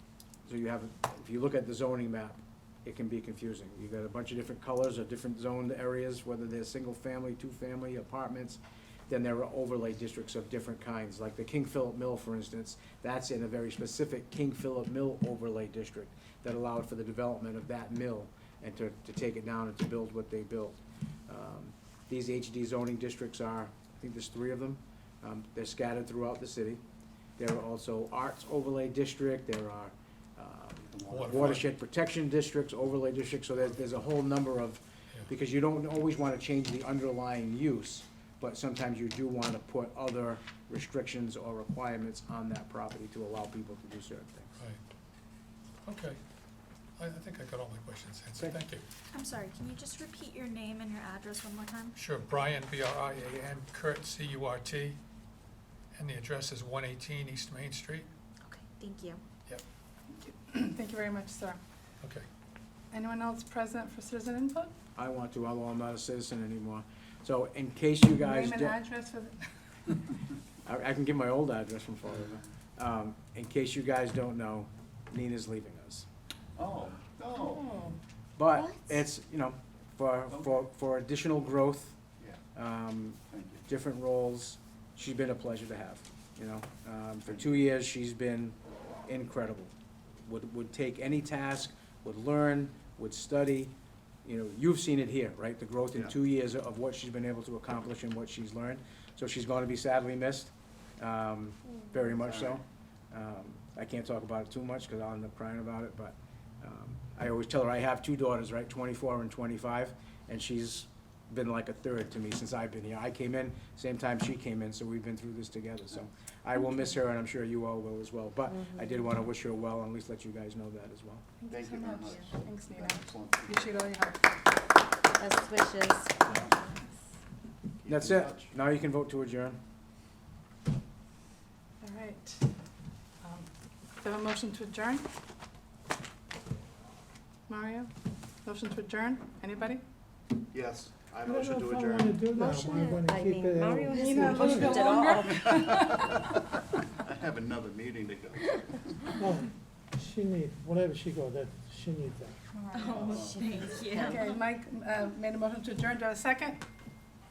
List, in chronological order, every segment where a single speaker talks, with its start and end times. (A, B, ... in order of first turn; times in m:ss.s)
0:00.5-0:26.8 A
0:27.4-0:44.6 A
0:30.8-0:31.6 B
0:31.1-0:31.7 C
0:45.9-0:46.2 C
0:47.0-0:48.8 C
0:49.1-0:52.0 D
0:52.0-0:55.0 C
0:55.9-0:58.1 C
0:58.4-0:59.2 D
1:00.2-1:01.6 E
1:02.9-1:04.7 E
1:05.0-1:08.8 A
1:08.1-1:09.4 E
1:10.6-1:16.1 A
1:16.6-1:17.9 B
1:17.6-1:17.9 E
1:18.4-1:22.0 A
1:22.6-1:28.6 A
1:23.3-1:23.6 B
1:29.1-1:29.7 A
1:30.2-1:33.7 A
1:34.2-2:01.2 A
1:42.2-1:42.6 B
1:58.5-1:58.9 F
2:01.4-2:04.3 E
2:01.5-2:03.8 B
2:05.2-2:06.3 F
2:07.8-2:08.5 B
2:07.9-2:09.6 A
2:11.8-2:12.5 E
2:13.2-2:15.1 E
2:17.5-2:17.9 E
2:18.4-2:19.8 E
2:20.5-2:22.2 B
2:21.3-2:24.9 G
2:22.8-2:25.3 F
2:23.9-2:26.3 E
2:25.3-2:26.1 B
2:27.0-2:28.8 B
2:29.2-2:32.4 G
2:32.6-2:33.2 E
2:32.7-2:34.4 D
2:32.9-2:33.8 B
2:33.9-2:36.6 E